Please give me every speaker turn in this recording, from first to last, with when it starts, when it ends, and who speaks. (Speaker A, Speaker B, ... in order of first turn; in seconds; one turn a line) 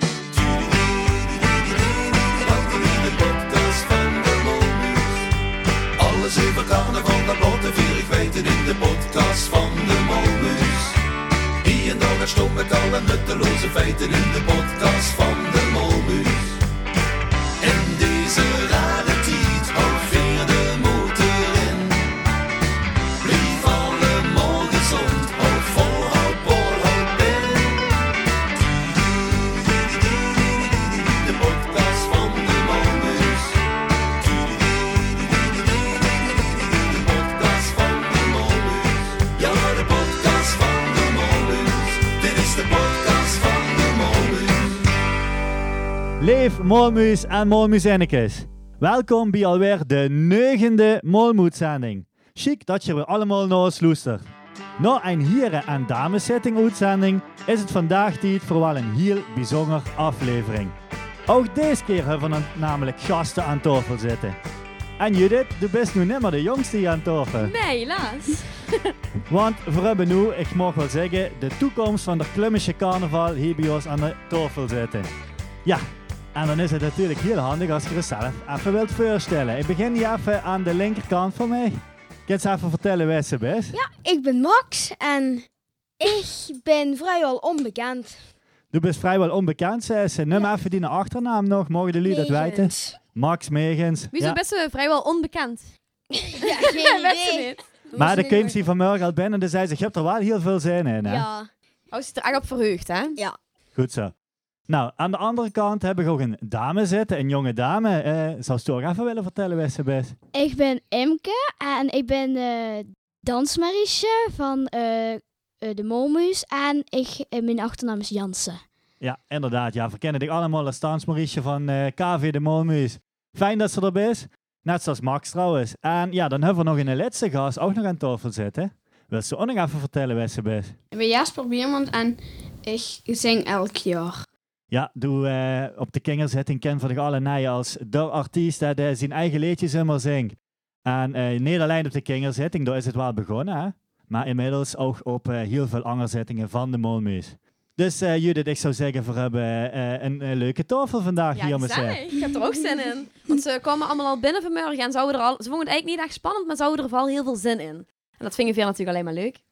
Speaker A: 0.3-5.3
Speaker A: 6.0-11.0
Speaker A: 11.6-16.6
Speaker A: 17.6-22.1
Speaker A: 23.2-27.8
Speaker A: 28.6-33.6
Speaker A: 34.2-44.8
Speaker B: 46.2-54.2
Speaker B: 54.8-60.7
Speaker B: 61.3-64.4
Speaker B: 65.0-67.5
Speaker C: 67.4-68.9
Speaker B: 69.3-75.1
Speaker B: 75.6-83.8
Speaker D: 83.7-85.5
Speaker D: 86.0-88.2
Speaker B: 88.7-94.4
Speaker D: 92.0-93.0
Speaker C: 94.1-95.7
Speaker D: 96.1-98.6
Speaker C: 96.4-97.8
Speaker B: 98.0-101.3
Speaker D: 101.0-101.5
Speaker C: 101.9-103.2
Speaker B: 103.7-104.1
Speaker B: 104.7-110.1
Speaker E: 110.3-118.6
Speaker B: 119.0-130.7
Speaker F: 130.9-134.2
Speaker B: 134.7-152.0
Speaker C: 151.3-159.4